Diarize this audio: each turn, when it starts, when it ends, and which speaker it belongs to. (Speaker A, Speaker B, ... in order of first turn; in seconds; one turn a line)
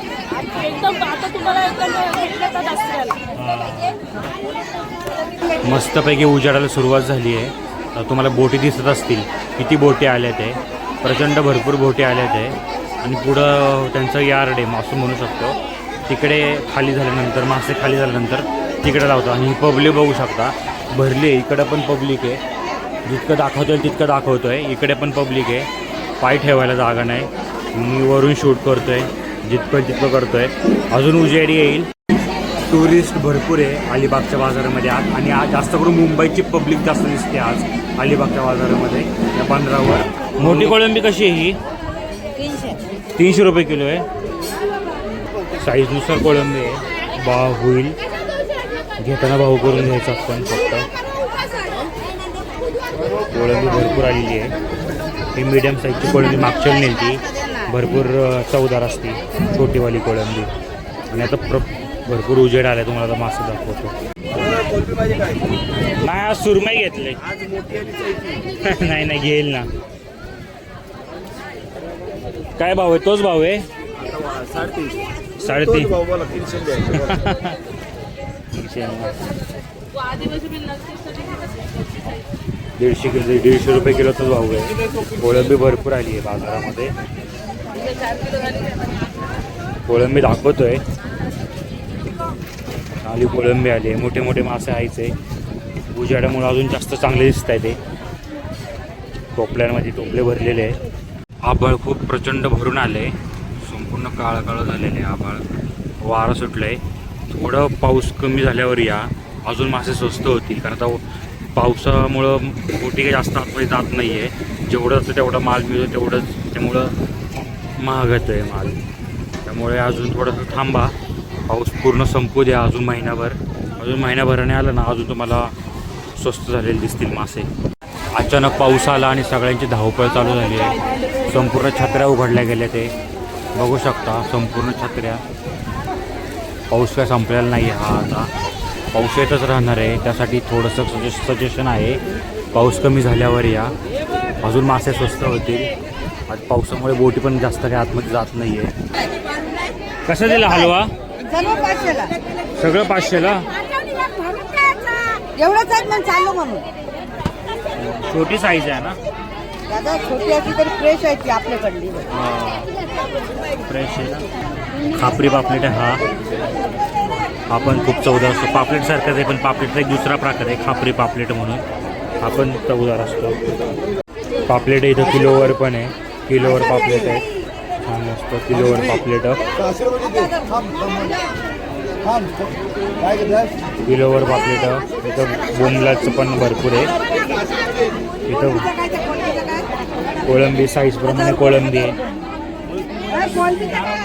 Speaker A: 0.5-3.2
Speaker B: 3.4-4.0
Speaker B: 5.6-22.4
Speaker B: 23.1-25.7
Speaker B: 26.2-31.9
Speaker B: 32.7-41.6
Speaker C: 42.4-42.7
Speaker B: 43.2-44.0
Speaker B: 45.6-48.0
Speaker B: 49.0-50.9
Speaker B: 53.3-54.5
Speaker B: 55.3-60.5
Speaker B: 61.1-63.9
Speaker B: 66.0-67.2
Speaker B: 68.6-69.7
Speaker B: 72.6-73.7
Speaker B: 75.4-76.1
Speaker B: 76.7-77.6
Speaker B: 78.5-79.2
Speaker A: 80.1-81.0
Speaker B: 82.8-86.9
Speaker B: 89.9-90.8
Speaker B: 93.0-95.1
Speaker B: 95.9-97.8
Speaker B: 99.3-100.8
Speaker B: 101.4-105.4
Speaker B: 106.0-111.0
Speaker B: 111.5-116.9
Speaker B: 117.8-118.8
Speaker B: 119.5-120.9
Speaker B: 121.5-125.5
Speaker B: 126.2-127.5
Speaker B: 128.1-132.9
Speaker B: 133.5-135.2
Speaker B: 136.7-138.3
Speaker B: 138.9-142.0
Speaker B: 142.5-143.7
Speaker B: 144.4-145.7
Speaker B: 146.3-148.7
Speaker B: 150.1-150.9
Speaker C: 151.2-152.2
Speaker B: 152.6-153.5
Speaker C: 153.9-156.7
Speaker B: 157.8-159.0
Speaker C: 159.7-162.1
Speaker B: 162.1-162.7
Speaker B: 163.7-164.2
Speaker B: 164.9-166.0
Speaker B: 167.5-171.6
Speaker B: 172.2-173.4
Speaker B: 174.5-177.2
Speaker B: 177.8-179.4
Speaker C: 179.9-181.1
Speaker B: 183.8-186.9
Speaker B: 188.3-188.7
Speaker C: 188.6-189.7
Speaker B: 190.2-192.0
Speaker C: 193.1-193.9